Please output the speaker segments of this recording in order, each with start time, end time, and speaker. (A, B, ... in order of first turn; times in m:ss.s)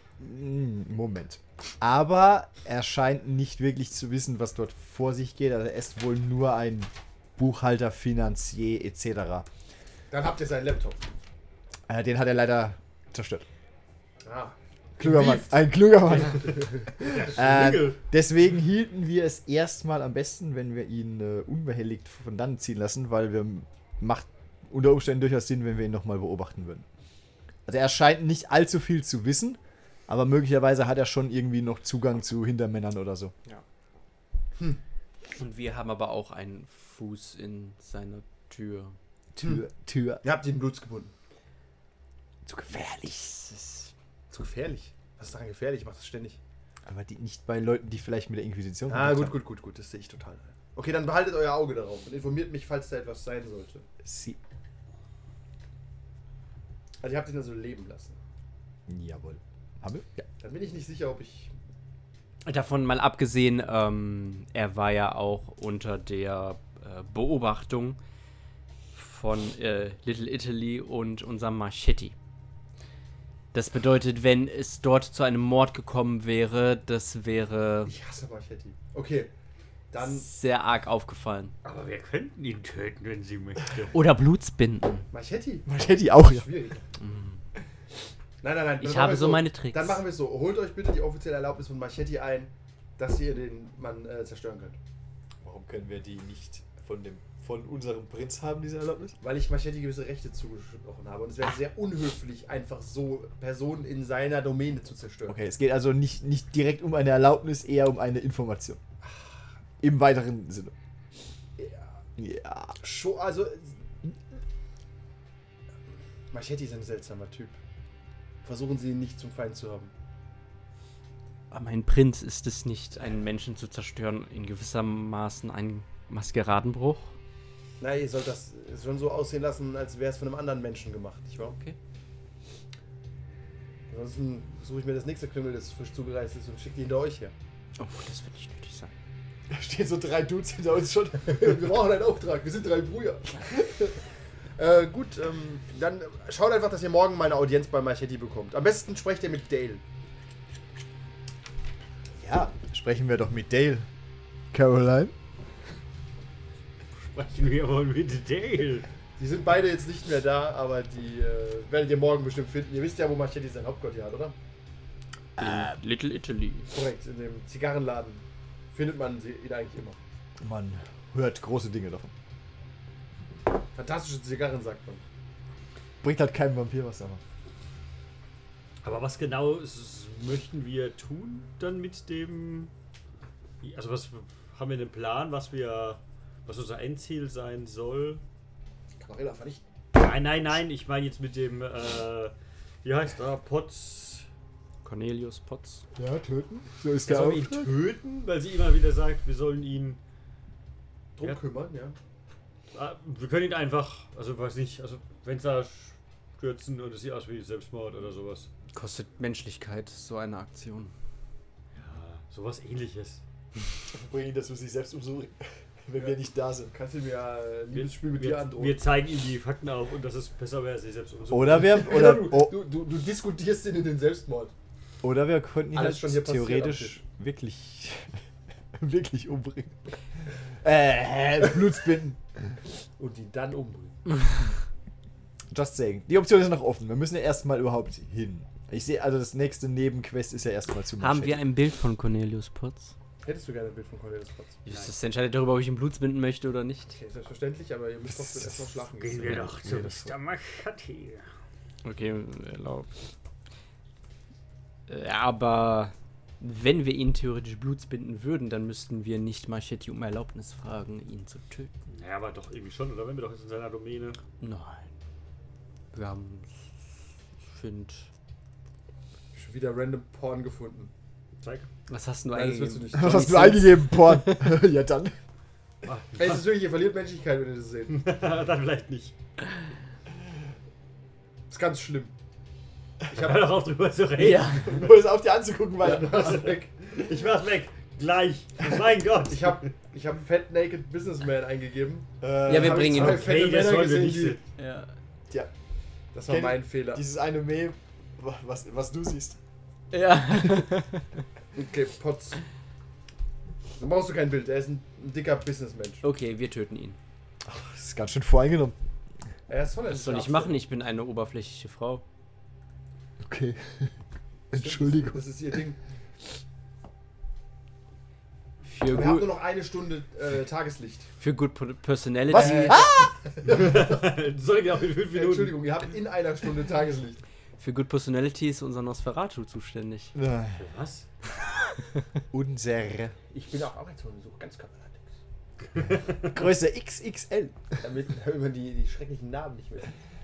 0:00.2-0:09.5 A
0:10.1-0:11.0 B
0:11.9-0:13.5 A
0:14.2-0:17.1 B
0:15.0-0:26.8 A
0:16.2-0:18.0 C
0:27.7-0:33.3 A
0:35.4-0:39.0 D
0:39.4-0:40.2 A
0:39.4-0:39.6 B
0:40.2-0:41.1 B
0:42.5-0:43.9 A
0:44.3-0:46.4 B
0:46.9-0:49.4 A
0:48.9-0:53.9 B
0:54.0-0:54.4 A
0:57.0-0:58.2 B
0:58.9-1:00.1 A
1:00.2-1:01.5 B
1:02.4-1:08.0 D
1:08.9-1:12.2 D
1:13.5-1:17.9 D
1:17.9-1:19.3 B
1:19.9-1:20.3 B
1:20.0-1:21.5 D
1:21.6-1:23.9 C
1:23.9-1:25.1 D
1:25.1-1:26.8 B
1:25.7-1:26.5 A
1:27.0-1:27.4 D
1:28.4-1:34.8 B
1:28.8-1:30.0 D
1:35.4-1:39.2 A
1:39.2-1:45.4 B
1:45.3-1:48.8 A
1:49.0-1:49.4 B
1:49.8-1:50.7 A
1:52.2-1:52.8 A
1:52.8-1:53.7 B
1:56.3-1:57.6 B
1:58.4-1:59.9 B
2:01.5-2:07.1 D
2:07.8-2:11.6 B
2:11.4-2:11.8 D
2:13.9-2:17.3 B
2:17.8-2:18.9 D
2:19.5-2:21.7 A
2:21.2-2:24.0 B
2:24.6-2:29.8 B
2:32.2-2:33.9 A
2:34.5-2:35.1 A
2:37.0-2:38.9 C
2:39.2-2:44.4 B
2:45.4-2:45.7 A
2:45.4-2:46.7 D
2:46.7-2:50.0 B
2:50.4-2:52.1 A
2:53.7-2:55.0 B
2:56.0-2:57.2 A
2:58.8-3:02.7 C
3:03.6-3:08.2 C
3:09.0-3:09.6 B
3:09.9-3:14.3 C
3:14.8-3:15.8 D
3:16.0-3:17.8 A
3:17.0-3:20.0 C
3:21.2-3:22.0 B
3:22.7-3:28.5 C
3:28.7-3:30.9 D
3:31.8-3:33.2 C
3:33.9-3:36.7 A
3:36.7-3:38.8 B
3:37.7-3:41.8 C
3:41.3-3:42.6 A
3:41.6-3:44.5 B
3:45.0-3:48.2 A
3:45.7-3:47.0 B
3:48.8-3:49.8 A
3:50.6-3:52.5 A
3:53.0-3:54.0 B
3:55.5-4:01.4 A
4:01.0-4:02.9 D
4:03.2-4:04.6 B
4:04.6-4:07.0 D
4:04.7-4:04.9 C
4:07.0-4:09.5 B
4:08.1-4:08.6 A
4:09.0-4:11.3 C
4:09.2-4:10.1 A
4:11.8-4:12.9 D
4:14.9-4:21.7 D
4:21.9-4:24.2 C
4:24.4-4:24.9 D
4:25.9-4:26.6 D
4:27.4-4:28.1 D
4:29.3-4:30.9 B
4:31.4-4:31.7 C
4:31.9-4:34.6 D
4:32.3-4:33.7 B
4:32.9-4:35.2 A
4:35.8-4:36.6 C
4:36.2-4:38.0 B
4:37.9-4:39.1 C
4:41.5-4:42.1 B
4:43.1-4:45.0 C
4:44.2-4:44.9 D
4:44.5-4:46.4 A
4:45.8-4:46.7 B
4:45.8-4:49.7 C
4:49.3-4:54.4 B
4:52.2-4:53.2 A
4:52.5-4:53.4 D
4:52.9-4:54.4 C
4:54.6-4:54.9 D
4:56.1-4:57.0 B
4:56.3-4:59.4 A
4:59.9-5:01.1 D
5:01.5-5:02.4 B
5:03.8-5:06.0 B
5:06.0-5:07.0 D
5:07.4-5:08.8 A
5:09.5-5:10.6 B
5:09.9-5:12.0 D
5:13.2-5:13.9 A
5:14.5-5:15.2 A
5:14.5-5:15.8 B
5:18.6-5:19.3 D
5:18.9-5:21.1 B
5:21.2-5:22.9 D
5:22.3-5:23.1 A
5:22.4-5:24.1 B
5:23.4-5:25.7 C
5:25.1-5:27.2 B
5:27.6-5:30.1 D
5:30.2-5:30.6 A
5:30.6-5:31.1 C
5:32.3-5:33.2 A
5:33.3-5:35.1 B
5:35.7-5:36.3 C
5:36.3-5:37.6 A
5:37.8-5:40.0 B